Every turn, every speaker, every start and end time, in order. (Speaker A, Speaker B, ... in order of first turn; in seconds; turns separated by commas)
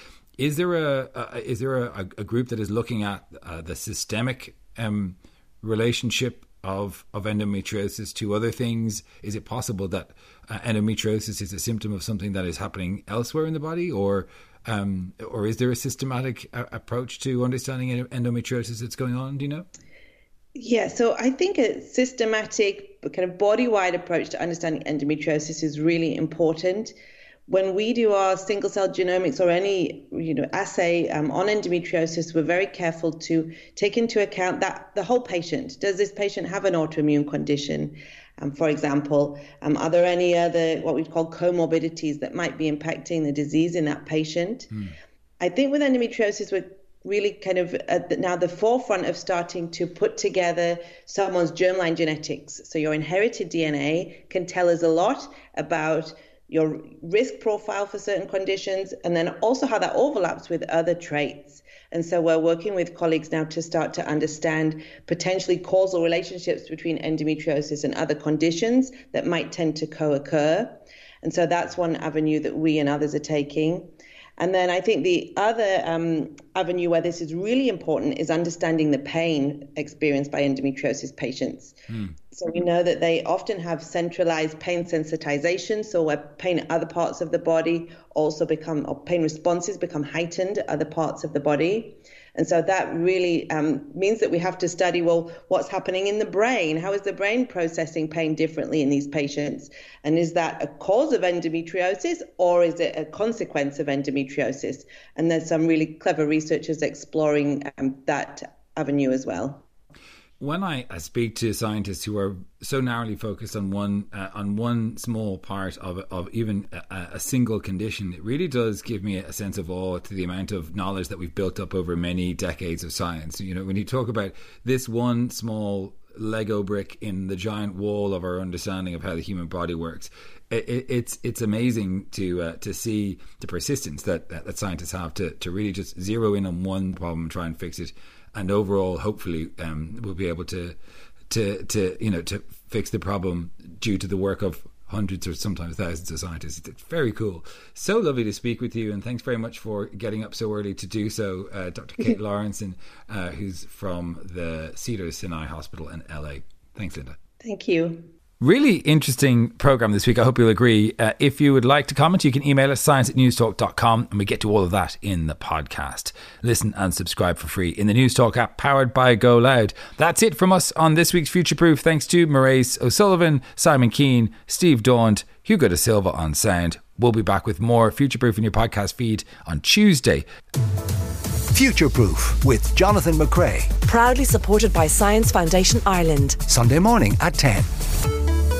Speaker A: 0.4-19.7, Speaker B: 20.5-26.9, Speaker B: 27.5-44.7, Speaker B: 45.4-81.8, Speaker B: 82.3-109.7, Speaker A: 110.4-140.7, Speaker A: 141.3-157.2, Speaker B: 157.4-158.1, Speaker A: 158.4-180.2, Speaker C: 181.5-183.8, Speaker D: 183.8-186.4, Speaker C: 186.5-187.7